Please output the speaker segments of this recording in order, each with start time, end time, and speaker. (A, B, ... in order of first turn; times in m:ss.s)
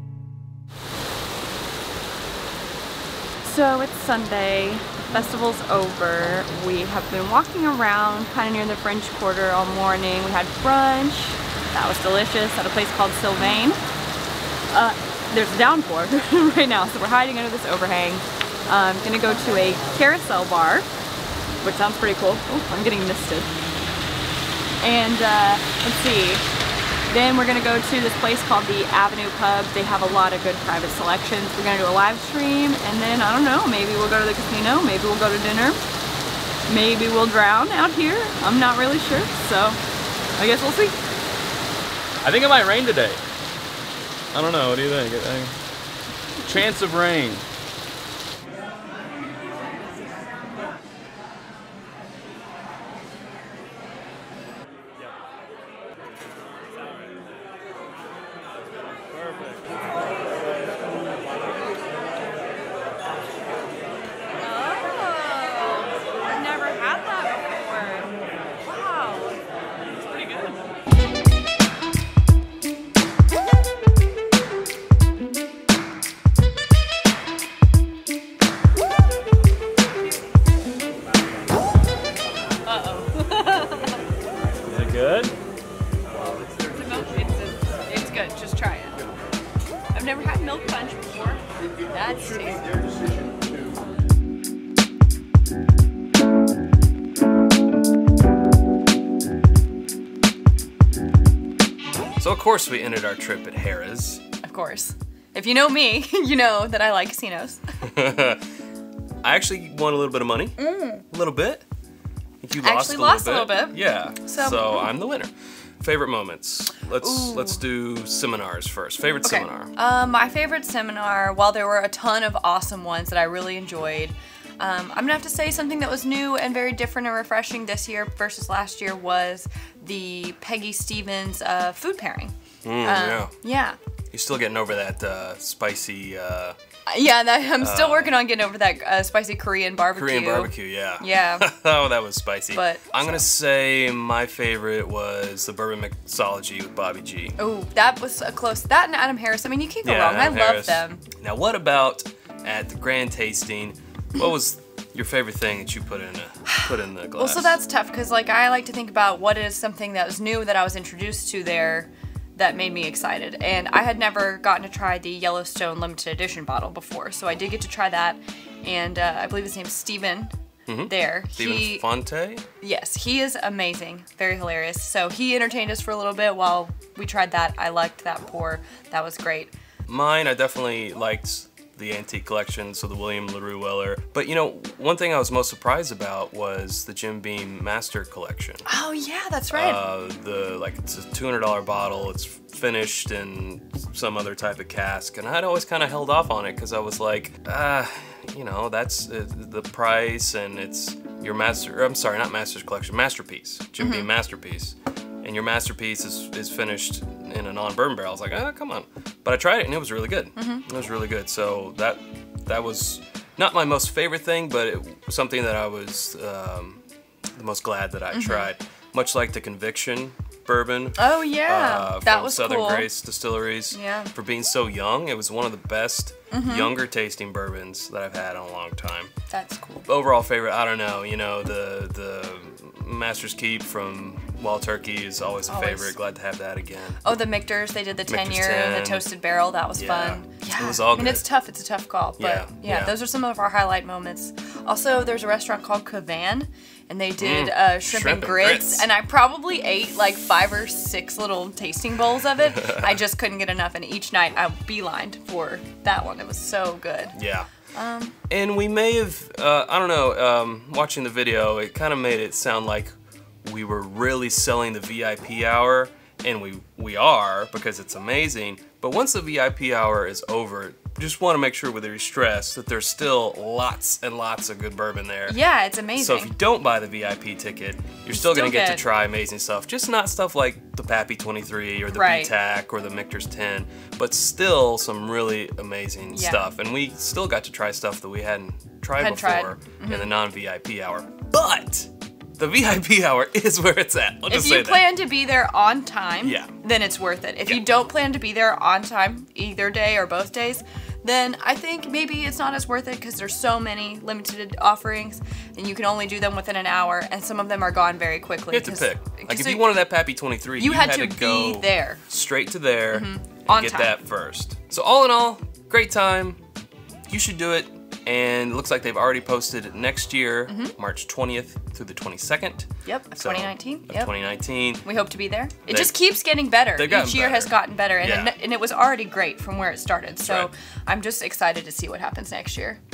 0:03.4-0:13.8 A
0:14.7-0:20.9 A
0:21.6-0:23.5 A
0:24.8-0:26.4 A
0:27.1-0:35.8 A
0:36.7-0:39.8 A
0:40.4-0:41.0 A
0:42.2-0:43.2 B
0:44.3-0:45.5 B
0:46.4-0:47.4 B
1:04.4-1:09.4 A
1:09.9-1:10.6 A
1:22.6-1:24.0 A
1:24.7-1:25.3 B
1:26.7-1:29.0 A
1:29.9-1:33.0 A
1:42.2-1:44.2 C
1:44.4-1:47.6 A
1:47.9-1:48.4 C
1:49.2-1:50.6 C
1:50.6-1:51.0 A
1:51.1-1:51.6 C
1:52.4-1:59.7 C
1:52.6-1:54.9 A
1:57.0-1:57.6 A
1:59.2-2:13.8 A
2:12.6-2:13.3 C
2:14.1-2:16.6 C
2:16.9-2:21.5 A
2:17.6-2:18.2 C
2:20.0-2:27.4 C
2:22.5-2:23.3 A
2:27.4-2:31.0 A
2:29.8-2:37.6 C
2:36.5-2:50.3 A
2:50.7-2:52.4 C
2:50.9-2:51.9 A
2:52.6-2:59.5 A
2:59.9-3:08.6 C
3:08.7-3:09.8 A
3:09.5-3:36.8 C
3:23.8-3:24.1 A
3:30.4-3:30.6 A
3:37.4-3:49.1 C
3:38.1-3:38.5 A
3:41.0-3:42.9 A
3:43.7-3:44.1 A
3:46.3-3:46.8 A
3:49.3-3:49.9 A
3:49.9-3:57.0 C
3:55.5-3:55.9 A
3:57.0-4:17.2 A
3:58.1-3:59.0 C
3:59.8-4:01.2 C
4:02.2-4:02.9 C
4:07.2-4:08.9 C
4:12.4-4:12.8 C
4:17.1-4:17.5 C
4:17.7-4:18.1 A
4:18.3-4:35.4 C
4:35.3-4:36.3 A
4:36.0-4:54.8 C
4:38.1-4:38.8 A
4:41.9-4:42.3 A
4:46.1-4:46.5 A
4:49.0-4:50.1 A
4:54.3-5:09.8 A
4:56.2-4:56.5 C
5:08.5-5:16.4 C
5:10.6-5:12.0 A
5:12.9-5:13.9 A
5:17.1-5:24.8 C
5:20.5-5:20.7 A
5:22.8-5:24.2 A
5:24.8-5:32.8 A
5:25.7-5:26.0 C
5:26.7-5:28.4 C
5:30.2-5:30.5 C